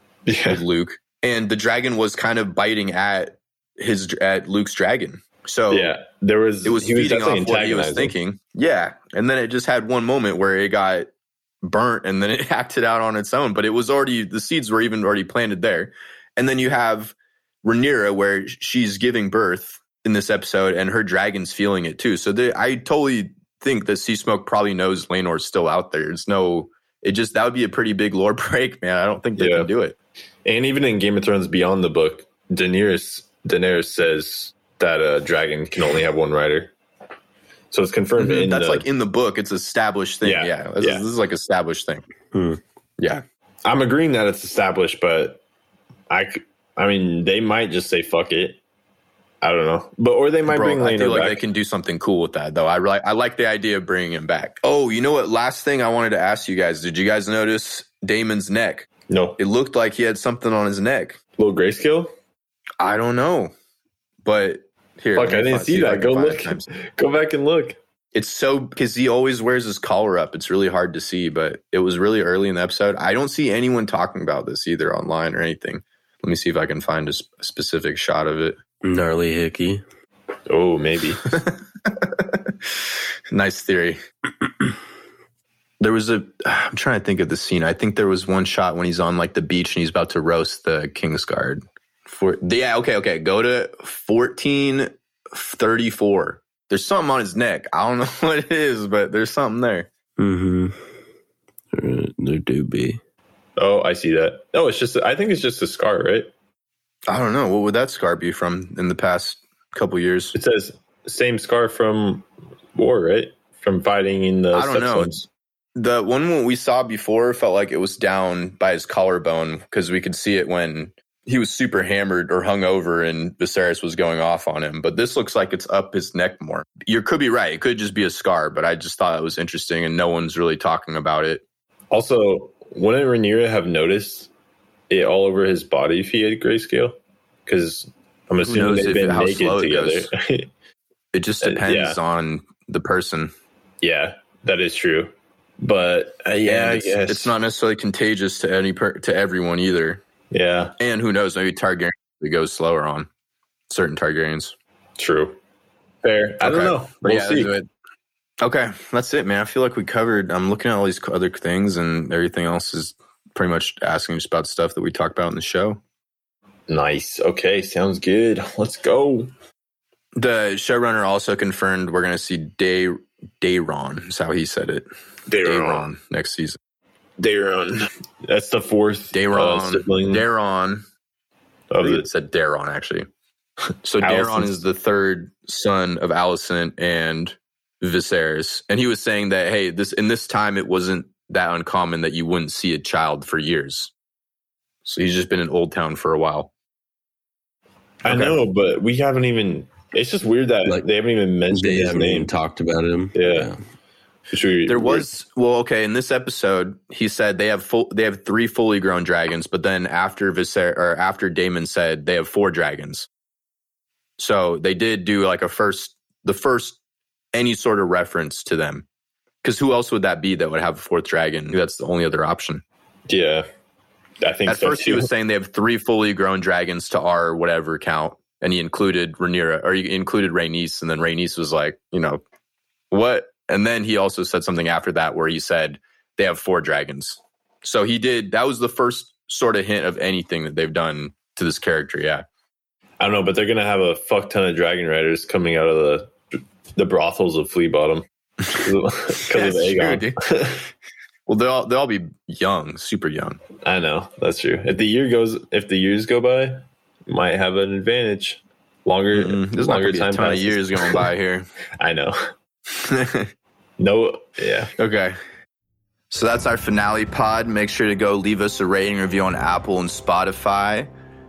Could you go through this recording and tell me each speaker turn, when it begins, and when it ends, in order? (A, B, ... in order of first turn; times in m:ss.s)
0:00.3-0:00.6 A
0:00.4-0:05.9 B
0:05.7-0:08.1 A
0:06.6-0:11.1 B
0:11.6-0:29.9 B
0:29.4-0:29.7 A
0:30.4-0:36.7 A
0:37.7-0:38.8 A
0:38.2-0:42.0 B
0:40.2-0:41.0 A
0:42.3-0:42.6 C
0:43.0-0:43.2 B
0:43.6-0:45.4 A
0:46.1-0:48.6 A
0:49.4-0:51.4 A
0:50.5-0:58.9 B
0:59.1-0:59.4 A
0:59.4-1:01.2 B
1:01.4-1:02.1 A
1:02.8-1:03.5 B
1:04.2-1:06.7 B
1:05.2-1:07.8 A
1:08.1-1:18.6 B
1:18.8-1:19.8 C
1:20.5-1:21.2 A
1:21.3-1:22.2 B
1:23.3-1:24.0 B
1:25.8-1:39.9 B
1:40.2-1:40.8 C
1:41.7-1:43.0 C
1:43.6-1:46.3 A
1:47.1-1:50.3 B
1:50.3-1:55.3 A
1:54.5-1:55.1 B
1:55.8-2:11.4 B
2:11.9-2:14.3 A
2:14.9-2:20.5 A
2:18.4-2:20.1 B
2:21.1-2:23.3 B
2:21.4-2:22.0 A
2:23.8-2:27.3 A
2:26.4-2:30.0 B
2:30.3-2:30.7 A
2:30.8-2:33.1 B
2:33.7-2:34.5 B
2:35.0-2:35.4 A
2:36.0-2:37.5 A
2:36.4-2:37.6 B
2:38.4-2:45.8 B
2:46.7-2:49.3 A
2:50.2-2:54.9 B
2:55.4-2:55.8 A
2:55.4-2:56.6 B
2:57.2-3:00.2 A
2:59.1-3:00.8 B
3:01.7-3:02.0 A
3:01.8-3:03.1 B
3:03.8-3:13.9 B
3:04.0-3:04.6 A
3:14.8-3:16.5 B
3:18.0-3:22.3 A
3:18.0-3:18.4 B
3:21.5-3:23.6 C
3:23.1-3:23.5 A
3:24.3-3:25.0 A
3:24.7-3:33.1 B
3:34.2-3:36.8 B
3:37.3-3:38.8 B
3:39.4-3:42.6 B
3:43.1-3:43.4 A
3:44.2-3:45.1 A
3:44.5-3:52.2 B
3:52.9-4:02.2 B
4:03.0-4:10.6 A
4:09.3-4:10.2 B
4:11.3-4:13.4 B
4:13.6-4:21.0 A
4:19.1-4:21.5 B
4:21.8-4:22.3 A
4:22.7-4:23.3 B
4:23.8-4:24.7 A
4:24.8-4:25.2 B
4:26.1-4:30.9 B